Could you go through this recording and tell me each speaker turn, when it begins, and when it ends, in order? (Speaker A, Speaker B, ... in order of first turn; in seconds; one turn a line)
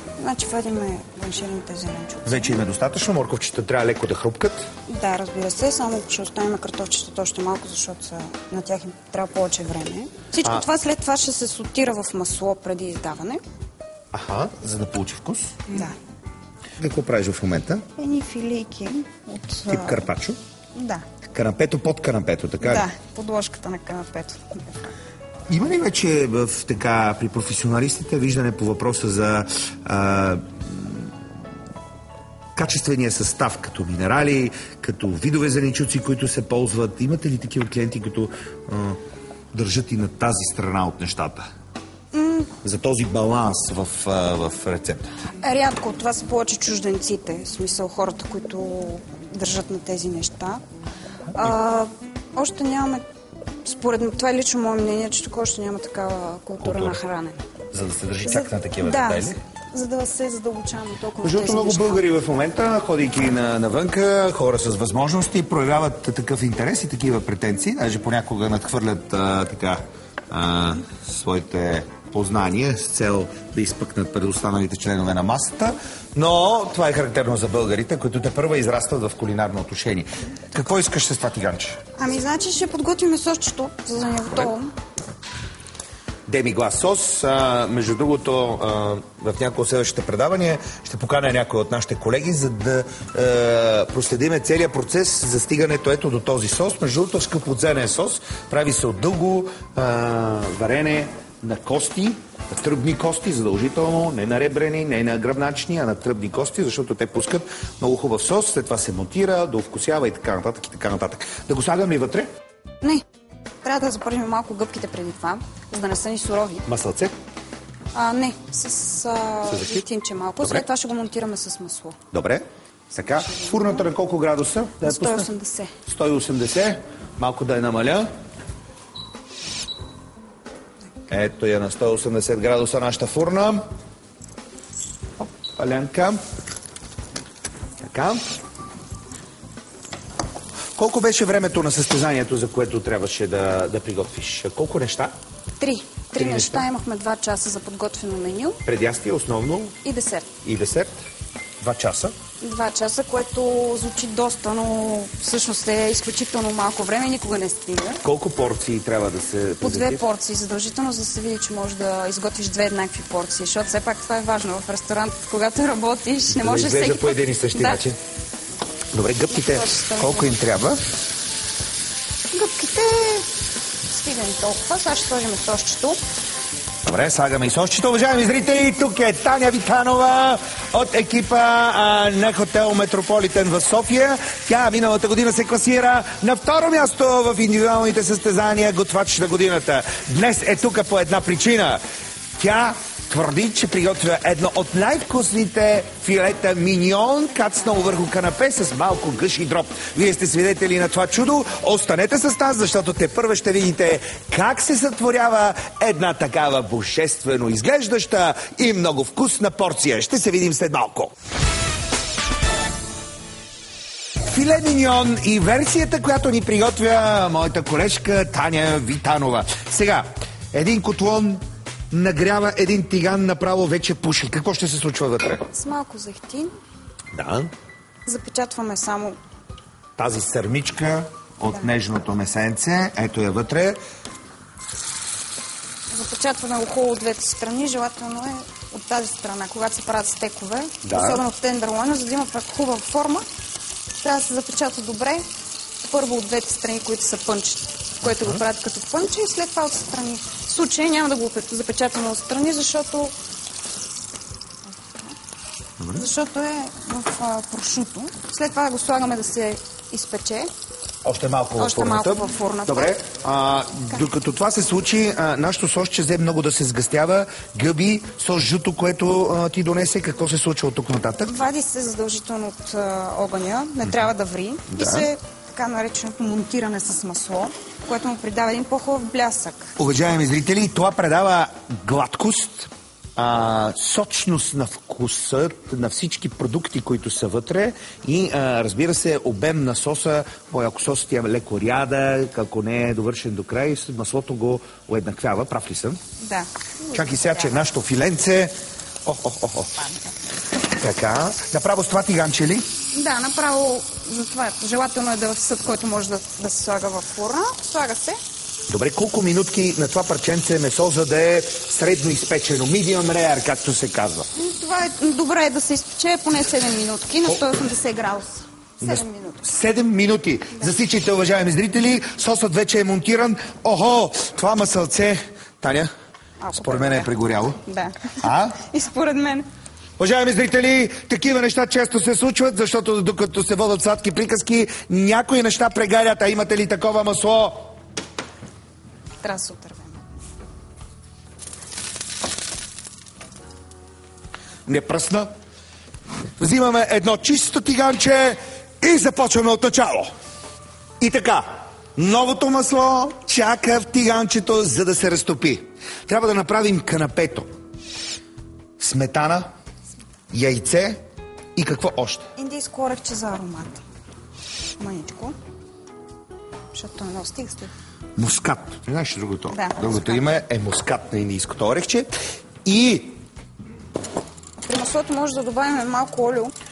Speaker A: 0.2-2.6
Speaker B: 2.2-4.7
Speaker A: 4.9-13.4
Speaker B: 14.1-15.7
Speaker A: 15.7-15.9
Speaker B: 16.8-17.8
Speaker A: 17.9-20.0
Speaker B: 19.7-20.4
Speaker A: 20.8-21.0
Speaker B: 21.3-22.9
Speaker A: 22.6-24.8
Speaker B: 25.5-31.1
Speaker B: 32.6-39.0
Speaker B: 39.5-41.5
Speaker A: 42.1-42.5
Speaker B: 42.6-45.1
Speaker A: 45.4-50.6
Speaker A: 51.3-53.0
Speaker A: 53.6-57.4
Speaker B: 56.6-57.0
Speaker B: 57.7-59.4
Speaker A: 58.2-62.0
Speaker B: 61.2-81.8
Speaker A: 82.0-84.7
Speaker B: 86.3-112.3
Speaker A: 113.6-116.7
Speaker B: 116.7-117.1
Speaker A: 117.9-122.0
Speaker B: 119.5-119.8
Speaker B: 122.1-125.3
Speaker A: 123.2-123.8
Speaker A: 124.8-125.7
Speaker B: 125.8-128.1
Speaker B: 131.1-133.6
Speaker B: 135.5-136.2
Speaker B: 137.8-138.2
Speaker B: 140.8-145.1
Speaker A: 145.6-148.6
Speaker B: 146.2-146.6
Speaker B: 148.6-149.8
Speaker A: 149.8-150.3
Speaker B: 150.4-150.9
Speaker B: 151.6-152.1
Speaker A: 152.4-158.0
Speaker B: 158.0-160.0
Speaker A: 159.6-167.8
Speaker B: 166.3-168.0
Speaker B: 168.9-170.8
Speaker A: 169.3-170.3
Speaker A: 172.3-173.3
Speaker A: 173.9-176.0
Speaker B: 176.8-191.8
Speaker B: 192.4-211.1
Speaker B: 214.3-225.4
Speaker A: 225.5-226.5
Speaker B: 227.1-227.5
Speaker A: 228.1-229.2
Speaker B: 230.0-233.8
Speaker A: 231.4-231.7
Speaker A: 235.9-243.2
Speaker B: 240.8-241.2
Speaker A: 244.0-245.2
Speaker A: 245.8-253.1
Speaker A: 254.7-255.1
Speaker B: 255.8-256.1
Speaker A: 255.9-260.5
Speaker B: 261.0-271.3
Speaker A: 261.6-263.0
Speaker A: 271.3-279.7
Speaker B: 274.7-275.1
Speaker B: 279.8-296.0
Speaker A: 296.2-297.6
Speaker B: 296.9-298.5
Speaker B: 299.0-299.8
Speaker B: 300.7-302.7
Speaker A: 302.9-308.2
Speaker B: 308.7-314.2
Speaker A: 314.3-319.4
Speaker B: 318.8-325.9
Speaker A: 326.4-327.1
Speaker B: 326.6-327.6
Speaker A: 327.6-329.5
Speaker B: 328.2-328.6
Speaker B: 330.0-337.7
Speaker A: 339.2-340.0
Speaker B: 344.6-345.3
Speaker B: 346.4-350.1
Speaker B: 351.0-357.5
Speaker B: 358.8-359.5
Speaker B: 360.3-361.0
Speaker B: 361.6-362.2
Speaker A: 362.4-363.8
Speaker A: 364.8-365.3
Speaker A: 366.7-367.7
Speaker B: 368.2-372.1
Speaker A: 369.5-370.2
Speaker B: 372.6-373.2
Speaker A: 374.6-376.5